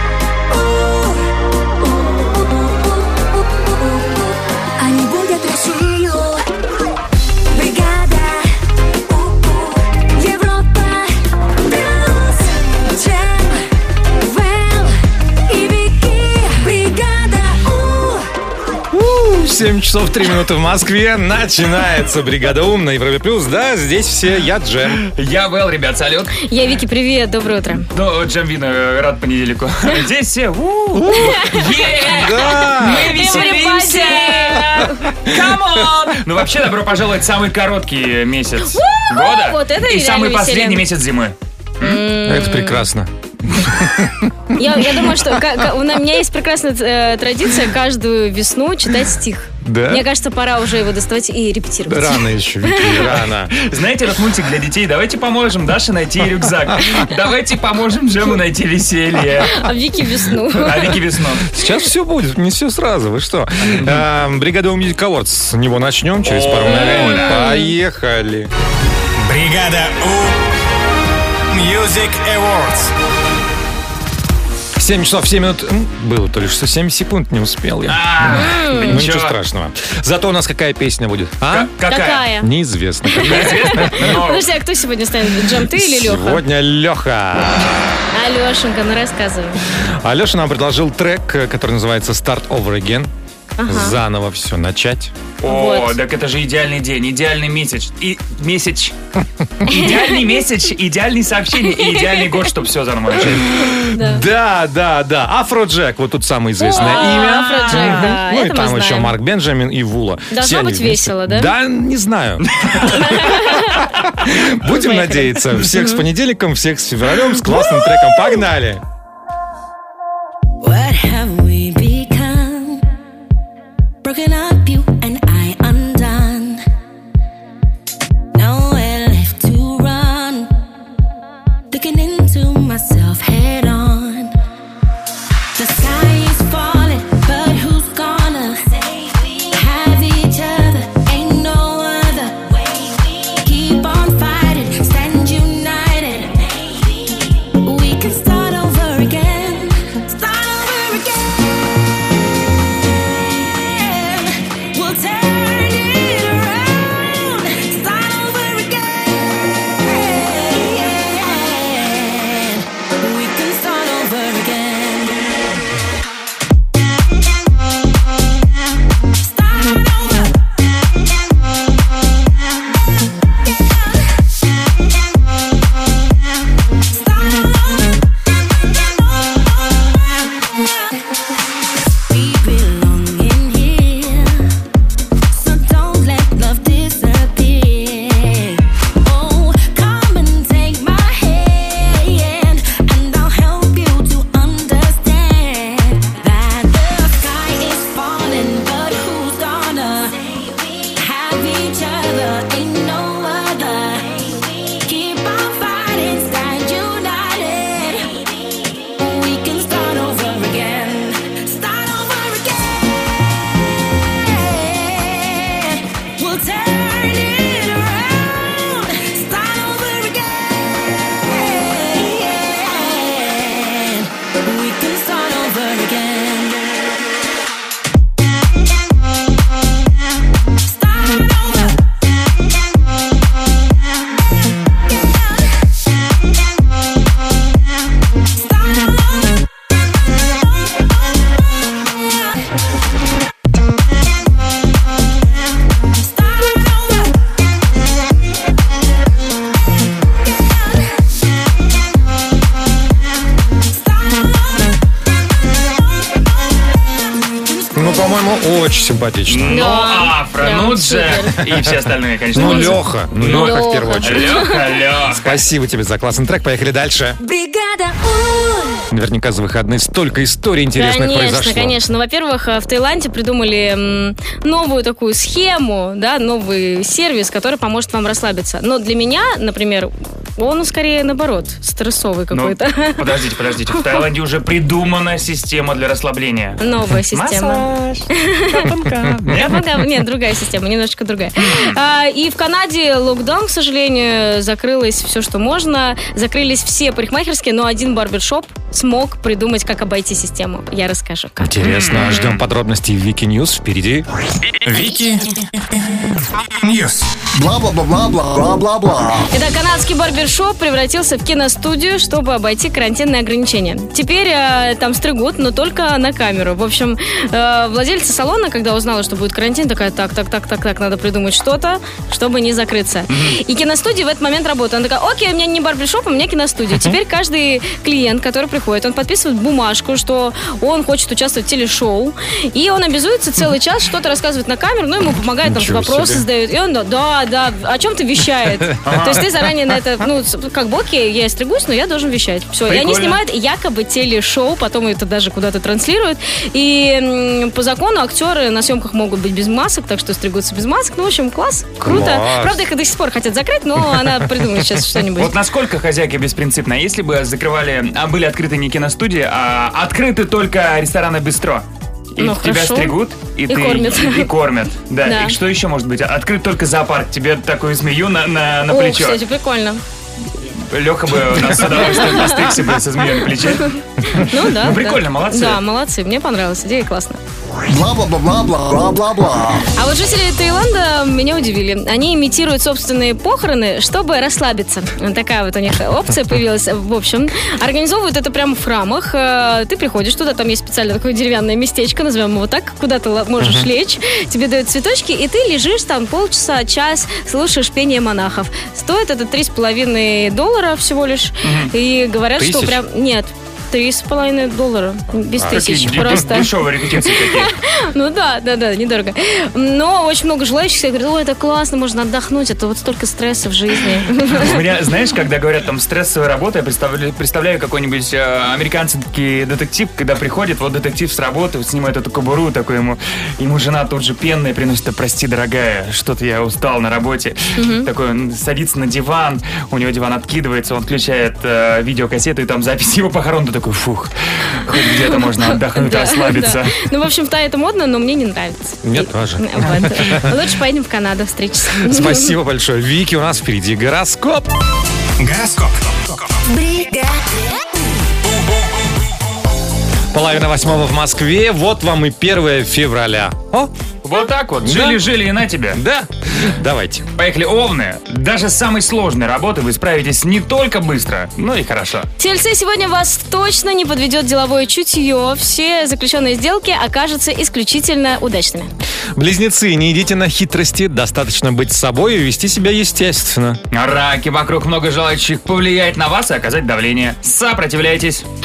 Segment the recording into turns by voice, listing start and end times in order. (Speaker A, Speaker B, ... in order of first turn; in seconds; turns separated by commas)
Speaker A: 0.5-1.2, Speaker A: 1.8-6.5, Speaker A: 7.5-13.7, Speaker A: 14.2-18.3, Speaker B: 18.9-25.0, Speaker C: 25.0-26.3, Speaker D: 26.4-27.9, Speaker C: 27.9-41.3, Speaker B: 31.0-31.3, Speaker D: 31.1-35.0, Speaker B: 32.0-33.4, Speaker D: 38.7-40.8, Speaker D: 41.8-42.8, Speaker B: 42.2-45.6, Speaker D: 44.6-53.1, Speaker B: 49.6-50.0, Speaker B: 51.9-53.5, Speaker C: 53.6-59.6, Speaker D: 59.4-60.9, Speaker C: 60.6-61.5, Speaker B: 61.5-68.5, Speaker C: 63.7-64.0, Speaker C: 66.2-67.4, Speaker D: 66.7-67.7, Speaker E: 69.2-70.4, Speaker E: 71.5-72.9, Speaker B: 74.8-81.7, Speaker C: 77.9-79.4, Speaker D: 78.3-79.0, Speaker C: 81.5-82.2, Speaker D: 81.9-82.5, Speaker B: 82.4-84.0, Speaker D: 83.1-86.4, Speaker C: 83.2-84.4, Speaker B: 85.7-88.0, Speaker D: 88.1-89.6, Speaker B: 89.8-93.1, Speaker D: 93.6-94.0, Speaker B: 93.7-95.1, Speaker C: 95.4-98.9, Speaker D: 95.5-96.0, Speaker D: 99.7-100.2, Speaker C: 99.7-103.5, Speaker D: 101.8-102.2, Speaker B: 103.6-112.5, Speaker D: 103.9-104.2, Speaker D: 106.6-109.2, Speaker C: 106.8-108.2, Speaker D: 110.3-111.5, Speaker C: 112.6-112.8, Speaker D: 112.9-113.9, Speaker B: 114.2-118.8, Speaker D: 114.7-116.0, Speaker A: 120.6-122.9, Speaker A: 124.0-126.7, Speaker A: 128.3-130.6, Speaker A: 131.7-134.4, Speaker A: 135.6-151.5, Speaker A: 153.3-165.3, Speaker A: 169.2-170.4, Speaker A: 176.9-180.7, Speaker A: 182.0-184.4, Speaker A: 185.3-226.9, Speaker A: 230.6-231.8, Speaker A: 238.2-239.4, Speaker A: 245.9-247.2, Speaker A: 253.6-254.8, Speaker A: 257.3-258.2, Speaker B: 257.7-259.6, Speaker C: 259.3-265.4, Speaker D: 259.5-261.3, Speaker B: 262.3-264.4, Speaker D: 262.4-264.7, Speaker B: 265.1-267.2, Speaker A: 267.2-268.8, Speaker B: 268.9-271.8, Speaker D: 270.7-283.0, Speaker C: 282.3-289.8, Speaker D: 286.6-287.6, Speaker D: 288.3-288.7, Speaker D: 289.3-302.4, Speaker B: 301.4-304.1, Speaker C: 301.6-302.3, Speaker E: 304.6-305.3, Speaker E: 306.6-307.1, Speaker F: 307.3-309.3, Speaker D: 309.3-355.3, Speaker C: 323.1-323.3, Speaker B: 326.7-326.9, Speaker B: 335.4-336.2, Speaker C: 338.8-339.2, Speaker C: 342.7-343.2, Speaker B: 351.8-352.6, Speaker B: 353.8-354.8, Speaker C: 355.2-361.6, Speaker C: 362.2-369.2, Speaker D: 362.2-362.9, Speaker D: 363.5-364.3, Speaker D: 365.1-365.3, Speaker D: 368.7-369.8, Speaker C: 370.7-375.6, Speaker D: 371.7-372.5, Speaker D: 374.1-377.2, Speaker F: 377.7-379.6, Speaker D: 379.8-406.5, Speaker B: 393.4-393.7, Speaker C: 401.4-401.7, Speaker B: 402.4-402.8, Speaker B: 405.3-406.4, Speaker C: 405.5-407.5, Speaker D: 407.0-414.5, Speaker C: 414.4-436.7, Speaker D: 427.6-427.9, Speaker D: 435.1-442.3, Speaker B: 438.8-440.4, Speaker B: 441.8-444.5, Speaker E: 445.2-446.3, Speaker A: 446.5-447.2, Speaker E: 448.2-449.1, Speaker B: 450.1-453.7, Speaker C: 454.0-455.8, Speaker B: 454.6-455.0, Speaker B: 455.7-457.1, Speaker C: 457.2-462.1, Speaker D: 462.2-468.7, Speaker B: 469.1-473.6, Speaker C: 473.7-478.2